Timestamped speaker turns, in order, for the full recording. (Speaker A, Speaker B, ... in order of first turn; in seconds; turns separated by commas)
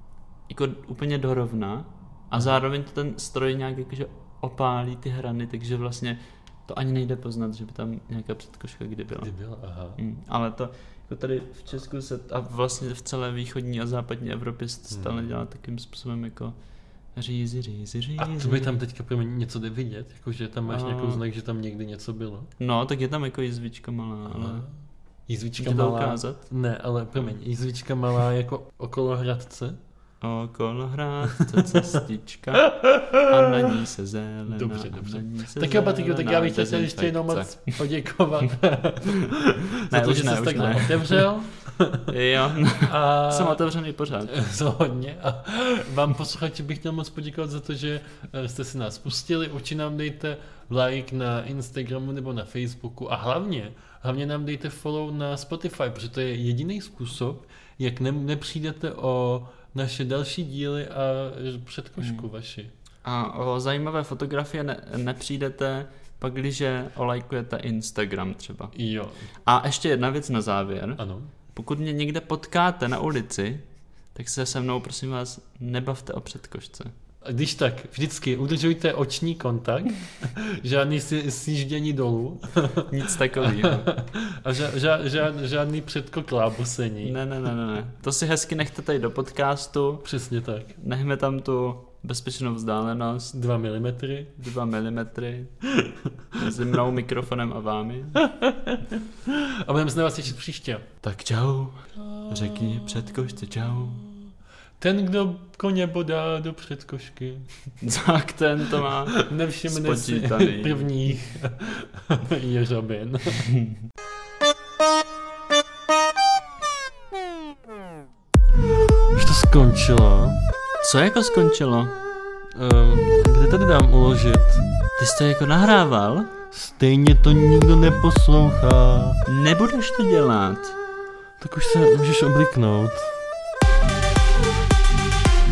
Speaker A: 0.5-9.3, Speaker B: 9.2-10.0, Speaker A: 10.0-16.5, Speaker B: 14.9-15.4, Speaker A: 17.1-18.7, Speaker B: 18.2-22.5, Speaker A: 20.7-21.2, Speaker A: 22.6-24.7, Speaker B: 24.3-24.7, Speaker B: 25.3-29.8, Speaker A: 25.6-26.4, Speaker A: 30.2-37.8, Speaker B: 31.3-32.0, Speaker B: 32.6-33.9, Speaker B: 34.5-42.1, Speaker A: 39.1-41.3, Speaker A: 42.1-44.4, Speaker B: 42.8-43.7, Speaker B: 44.2-62.7, Speaker A: 62.0-62.3, Speaker A: 63.0-68.7, Speaker B: 68.7-69.3, Speaker A: 69.5-71.0, Speaker B: 71.0-71.3, Speaker A: 71.5-73.6, Speaker A: 74.1-76.9, Speaker B: 77.2-87.2, Speaker A: 82.9-83.9, Speaker A: 87.0-90.0, Speaker B: 90.0-90.8, Speaker A: 90.8-93.3, Speaker B: 93.3-94.3, Speaker A: 94.4-95.5, Speaker B: 95.7-96.6, Speaker A: 96.3-98.3, Speaker B: 98.2-100.9, Speaker A: 101.0-104.1, Speaker B: 104.8-107.5, Speaker A: 107.8-110.9, Speaker B: 109.1-113.5, Speaker A: 113.4-113.8, Speaker B: 119.1-120.4, Speaker A: 120.8-122.0, Speaker B: 122.5-124.6, Speaker A: 125.0-126.3, Speaker B: 126.5-129.2, Speaker A: 129.3-130.8, Speaker B: 131.4-133.1